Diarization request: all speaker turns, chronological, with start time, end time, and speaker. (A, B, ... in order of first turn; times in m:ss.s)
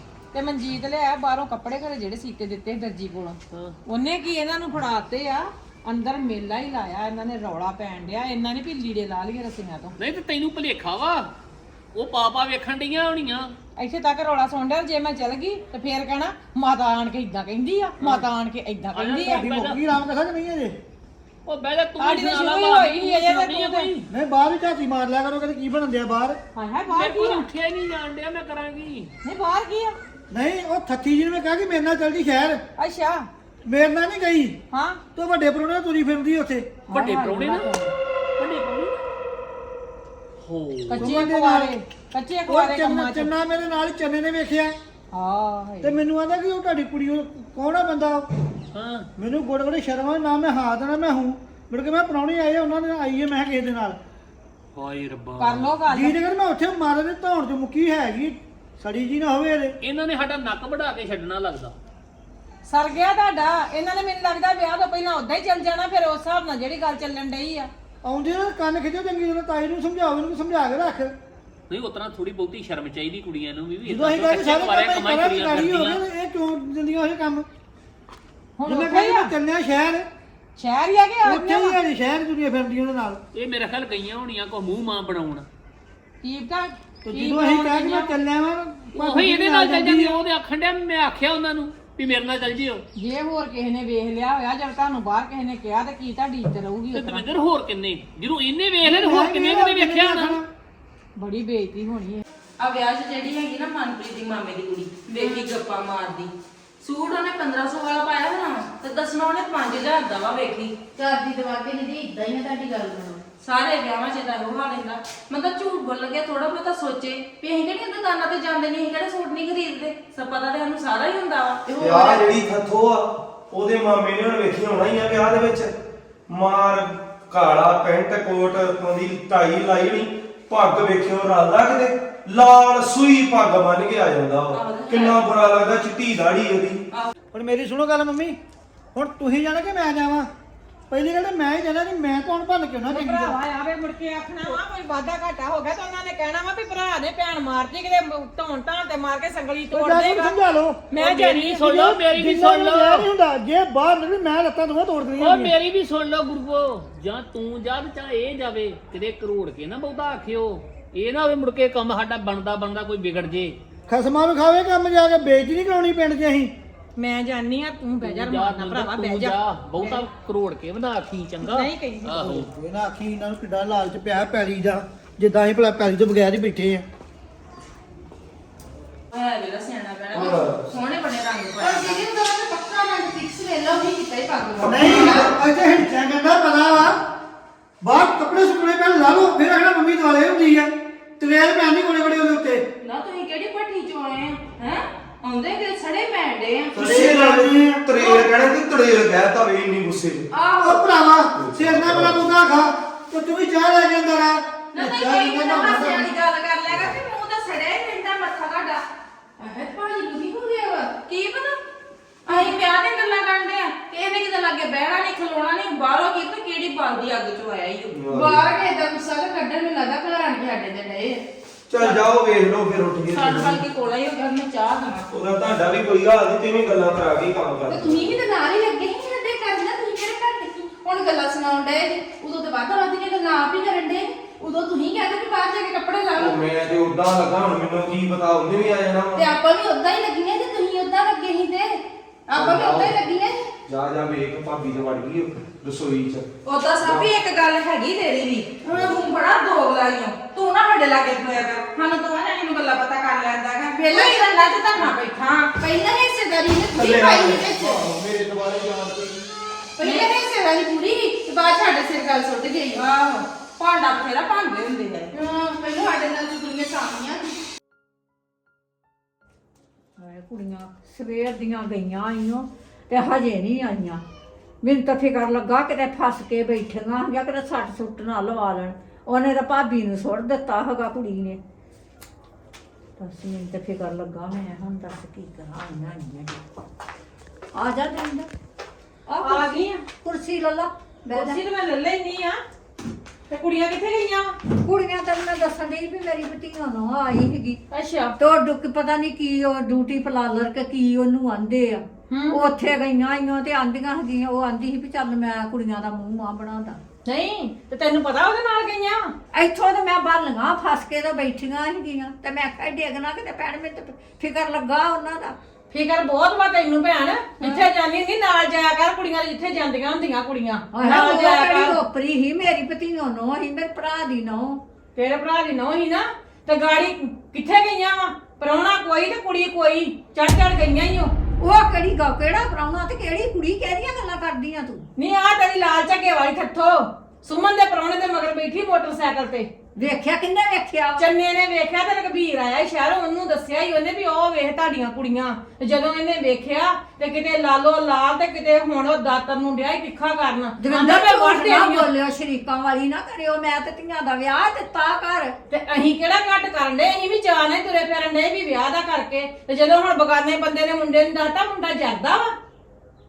0:00.3-0:09.9 A
0:03.5-0:03.8 B
0:10.0-0:11.3 B
0:11.9-0:13.5 B
0:13.8-0:19.5 A
0:18.0-0:18.3 B
0:19.0-0:19.8 B
0:19.3-0:20.8 C
0:21.5-0:24.1 B
0:22.0-0:23.9 A
0:24.1-0:26.4 C
0:26.6-0:27.5 A
0:26.9-0:29.1 B
0:29.2-0:30.0 A
0:30.3-0:32.6 C
0:32.8-0:33.3 A
0:33.6-0:34.6 C
0:34.7-0:35.0 A
0:35.2-0:36.8 C
0:36.9-0:37.9 A
0:36.9-0:37.7 B
0:38.4-0:39.0 B
0:40.4-0:41.1 B
0:40.9-0:43.3 A
0:40.9-0:41.7 C
0:42.5-0:44.7 C
0:45.1-0:46.0 A
0:45.8-0:48.3 C
0:48.7-0:49.1 B
0:49.2-0:54.0 C
0:54.7-0:55.8 B
0:55.4-0:56.2 A
0:55.9-0:59.8 C
0:59.8-1:01.8 B
1:02.7-1:07.7 A
1:08.0-1:11.1 C
1:11.7-1:16.0 B
1:13.9-1:17.5 C
1:18.6-1:19.3 A
1:18.6-1:20.0 C
1:20.6-1:21.8 A
1:21.2-1:23.2 C
1:23.3-1:25.5 B
1:26.2-1:28.1 A
1:27.0-1:30.2 C
1:28.9-1:32.8 B
1:33.0-1:37.2 A
1:36.9-1:40.4 B
1:38.8-1:40.5 C
1:41.2-1:42.2 A
1:42.6-1:50.8 D
1:51.0-1:53.2 E
1:53.4-2:01.6 D
2:01.7-2:02.3 E
2:01.8-2:05.7 F
2:06.3-2:16.8 F
2:14.5-2:15.2 D
2:17.3-2:18.4 C
2:18.9-2:20.3 C
2:20.9-2:23.4 C
2:22.9-2:30.4 A
2:29.7-2:30.9 C
2:30.9-2:32.0 A
2:30.9-2:33.1 B
2:31.7-2:35.5 C
2:35.2-2:43.6 B
2:43.9-2:46.5 C
2:47.0-2:50.0 A
2:48.0-2:52.5 B
2:51.4-2:52.5 A
2:52.5-2:56.8 C
2:59.1-3:02.0 D
3:00.1-3:00.6 F
3:01.6-3:05.2 E
3:04.6-3:07.0 C
3:07.8-3:12.6 C
3:12.8-3:17.1 D
3:16.7-3:20.3 F
3:16.8-3:17.8 C
3:20.4-3:20.8 E
3:20.6-3:26.1 C
3:21.3-3:22.3 F
3:24.8-3:28.8 E
3:29.4-3:31.6 E
3:32.3-3:38.0 D
3:32.3-3:32.6 E
3:33.9-3:34.8 E
3:37.9-3:38.5 F
3:38.1-3:41.2 E
3:41.7-3:43.6 F
3:43.1-3:45.1 D
3:45.1-3:48.2 F
3:47.7-3:56.4 E
3:56.2-3:59.3 F
3:59.2-4:03.4 E
4:02.3-4:03.0 F
4:03.7-4:06.3 F
4:06.8-4:07.1 D
4:06.8-4:07.1 F
4:06.9-4:09.5 E
4:08.5-4:15.1 D
4:08.7-4:08.9 F
4:10.3-4:11.2 E
4:13.8-4:17.8 E
4:16.7-4:19.2 F
4:19.8-4:22.9 E
4:19.8-4:20.1 D
4:22.7-4:25.1 D
4:25.1-4:27.3 E
4:30.0-4:34.0 G
4:34.6-4:41.4 G
4:43.0-4:46.4 G
4:47.6-4:48.3 G
4:49.1-4:51.4 G
4:49.2-4:49.8 A
4:51.1-4:52.4 A
4:53.3-4:54.4 A
4:54.6-4:57.6 G
4:57.7-4:58.2 A
4:58.2-5:06.8 G
5:02.1-5:02.4 A
5:07.1-5:09.1 A
5:09.3-5:15.4 G
5:15.7-5:21.8 A
5:20.7-5:24.6 G
5:25.0-5:31.1 A
5:31.4-5:34.8 G
5:35.0-5:39.5 A
5:39.8-5:41.0 G
5:41.0-5:51.9 A
5:50.6-5:55.4 G
5:55.5-6:02.4 A